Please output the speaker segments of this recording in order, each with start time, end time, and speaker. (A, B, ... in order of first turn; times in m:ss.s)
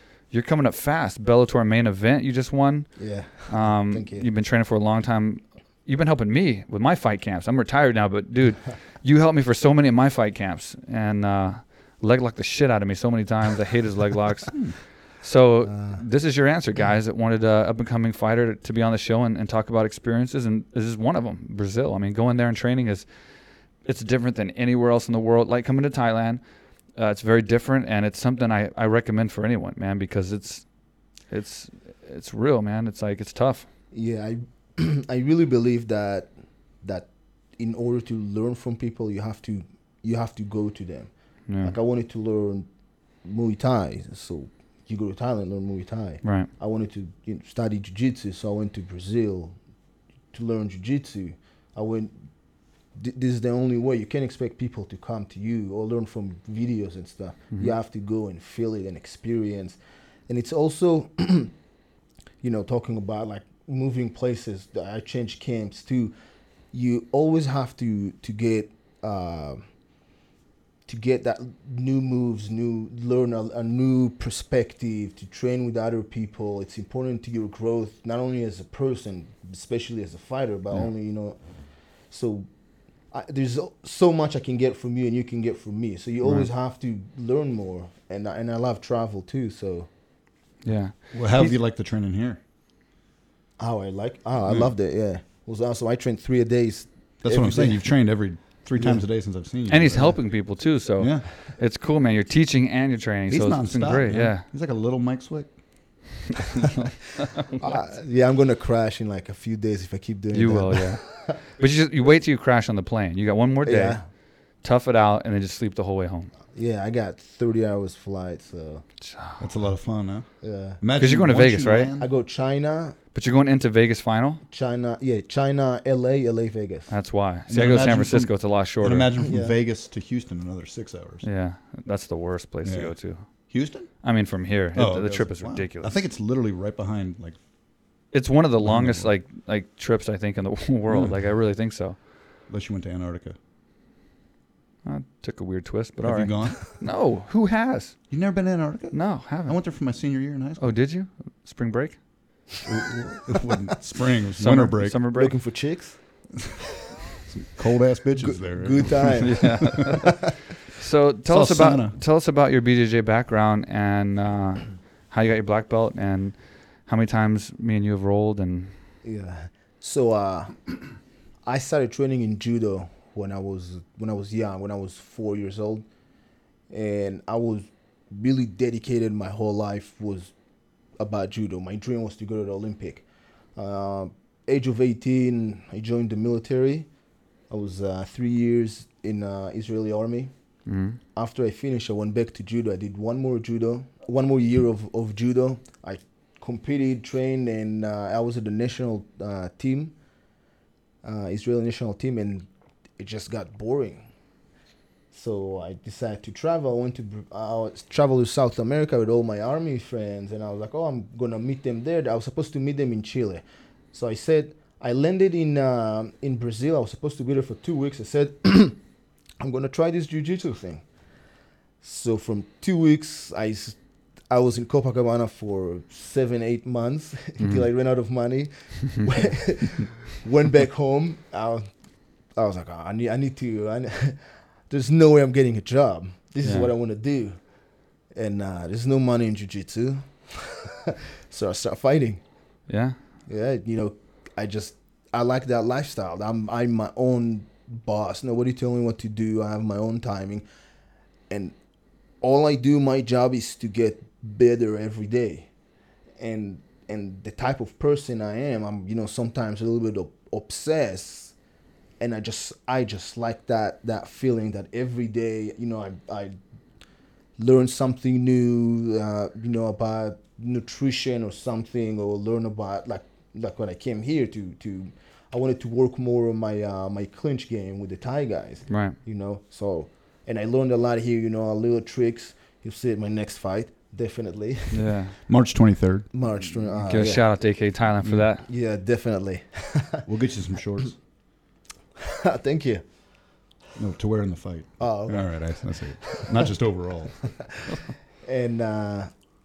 0:00.2-0:23.1 A
0:03.0-0:04.3 B
0:15.6-0:16.0 B
0:23.8-0:26.4 A
0:26.9-0:30.7 A
0:31.3-0:33.7 A
0:33.9-0:42.7 B
0:41.5-0:41.7 A
0:43.2-0:49.6 B
0:46.2-0:46.5 A
0:50.3-0:52.1 B
0:52.9-1:01.6 B
1:02.4-1:06.1 B
1:06.7-1:09.6 B
1:10.9-1:22.5 B
1:23.0-1:29.9 B
1:30.6-1:31.6 A
1:31.1-1:32.4 C
1:33.6-1:39.1 B
1:34.4-1:34.7 C
1:37.2-1:40.4 C
1:39.7-1:44.4 A
1:41.0-1:41.2 C
1:43.3-1:46.2 C
1:47.2-1:47.7 A
1:47.6-1:51.4 B
1:50.3-1:56.3 A
1:53.6-1:54.0 B
1:56.5-1:58.9 B
1:59.0-1:59.4 A
1:59.4-2:02.1 C
2:00.4-2:00.8 B
2:00.9-2:01.9 A
2:02.0-2:03.0 B
2:03.1-2:04.4 A
2:04.5-2:06.9 B
2:06.9-2:09.1 A
2:07.5-2:11.2 C
2:09.2-2:09.6 B
2:11.2-2:16.0 A
2:12.6-2:14.1 C
2:14.7-2:17.4 C
2:18.1-2:22.0 A
2:18.6-2:19.1 C
2:20.9-2:21.3 C
2:22.5-2:23.3 C
2:24.8-2:28.0 A
2:26.0-2:26.7 C
2:28.1-2:30.6 C
2:28.9-2:29.5 A
2:30.6-2:32.0 A
2:32.6-2:35.0 C
2:34.4-2:35.3 A
2:35.1-2:36.5 B
2:37.2-2:39.6 C
2:38.2-2:40.2 B
2:39.2-2:40.2 A
2:40.8-2:48.7 A
2:41.2-2:42.0 C
2:49.0-2:55.8 B
2:56.7-3:00.3 B
3:01.0-3:06.9 B
3:07.5-3:19.9 B
3:10.7-3:11.0 A
3:21.0-3:22.5 B
3:23.0-3:24.0 B
3:25.1-3:38.8 B
3:39.4-3:40.9 B
3:41.8-3:57.4 B
3:47.4-3:47.6 A
3:56.4-3:56.7 A
3:58.1-4:02.2 B
4:02.7-4:03.0 A
4:03.3-4:10.4 B
4:11.3-4:11.5 B
4:12.2-4:15.5 B
4:16.2-4:21.3 B
4:22.0-4:26.3 B
4:27.4-4:44.9 B
4:38.7-4:39.0 A
4:44.7-4:45.1 A
4:45.3-4:46.1 C
4:46.1-4:47.2 B
4:46.8-4:48.4 A
4:48.0-4:48.3 C
4:48.4-4:50.0 B
4:50.0-4:51.0 C
4:52.2-4:52.9 B
4:53.8-4:57.7 C
4:54.8-4:56.4 B
4:57.7-4:59.1 B